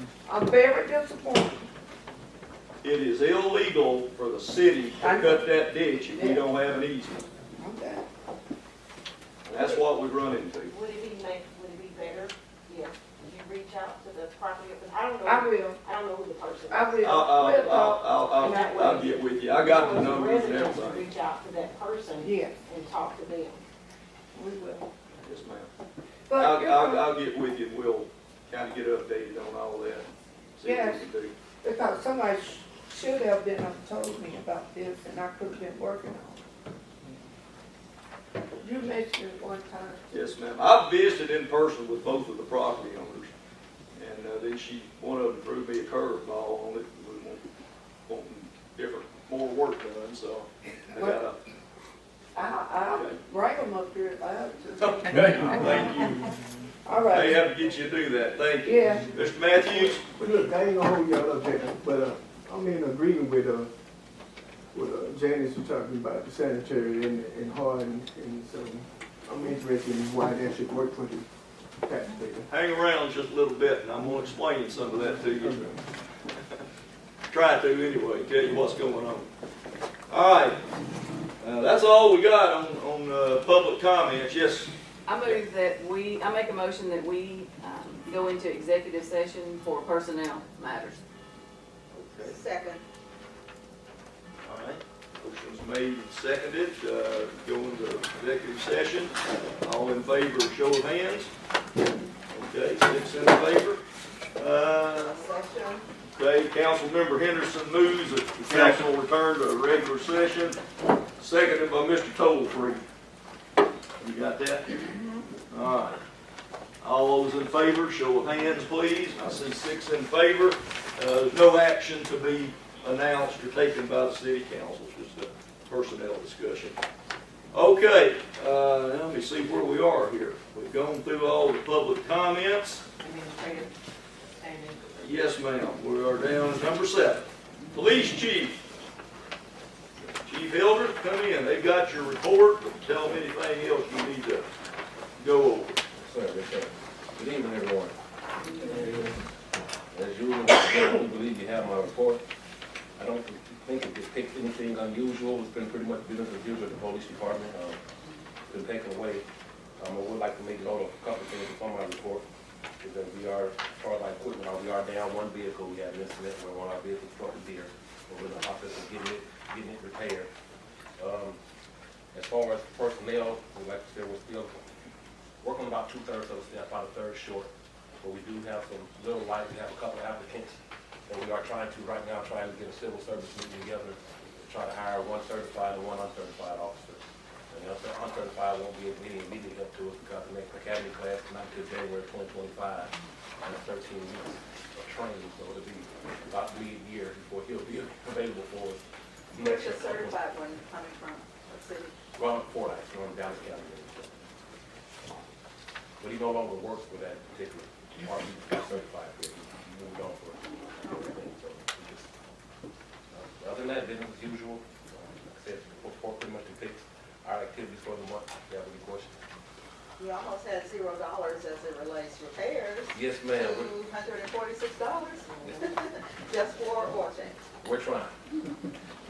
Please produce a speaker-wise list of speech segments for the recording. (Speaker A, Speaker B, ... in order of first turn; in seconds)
Speaker A: 0.2-1.6, 5.0-5.5, 6.1-6.4, 7.6-8.0, 15.2-15.8, 16.7-18.2, 22.2-22.6, 24.3-24.9, 26.3-27.1, 30.6-31.1, 31.6-36.4, 38.6-40.2, 51.0-51.2, 52.3-56.1, 56.8-57.5, 58.6-59.4
Speaker B: 2.8-7.3, 9.4-10.7, 17.0-21.1, 25.2-25.7, 26.3-31.3, 40.1-43.3, 44.0-47.4, 48.0-51.4, 52.9-53.2, 55.1-56.3, 57.1-60.0, 72.5-75.8, 77.3-79.3, 80.1-80.6, 81.4-84.7, 91.9-92.4, 94.4-101.3, 102.3-103.8, 104.4-105.2, 106.2-110.6, 111.2-112.8, 114.0-114.7, 115.5-116.0, 116.8-126.8, 127.5-132.8, 135.0-138.6, 140.1-144.5, 145.2-145.8
Speaker C: 10.7-17.2, 18.3-23.6, 133.0-133.7, 134.3-134.9
Speaker D: 60.1-63.7, 64.7-71.3, 71.8-72.5, 75.5-75.7
Speaker E: 85.1-91.0
Speaker F: 92.2-92.8, 104.9-105.9, 199.3-201.9, 210.7-211.3, 220.0-227.4
Speaker G: 146.0-147.9, 149.9-152.2, 153.0-157.8, 158.5-159.2, 159.8-162.2, 162.8-170.3, 171.0-171.4, 172.1-174.6, 175.4-177.5, 178.0-198.8, 199.3-200.2, 202.1-204.2, 206.0-210.5, 211.1-212.1, 213.1-219.1, 222.9-223.8, 227.6-228.1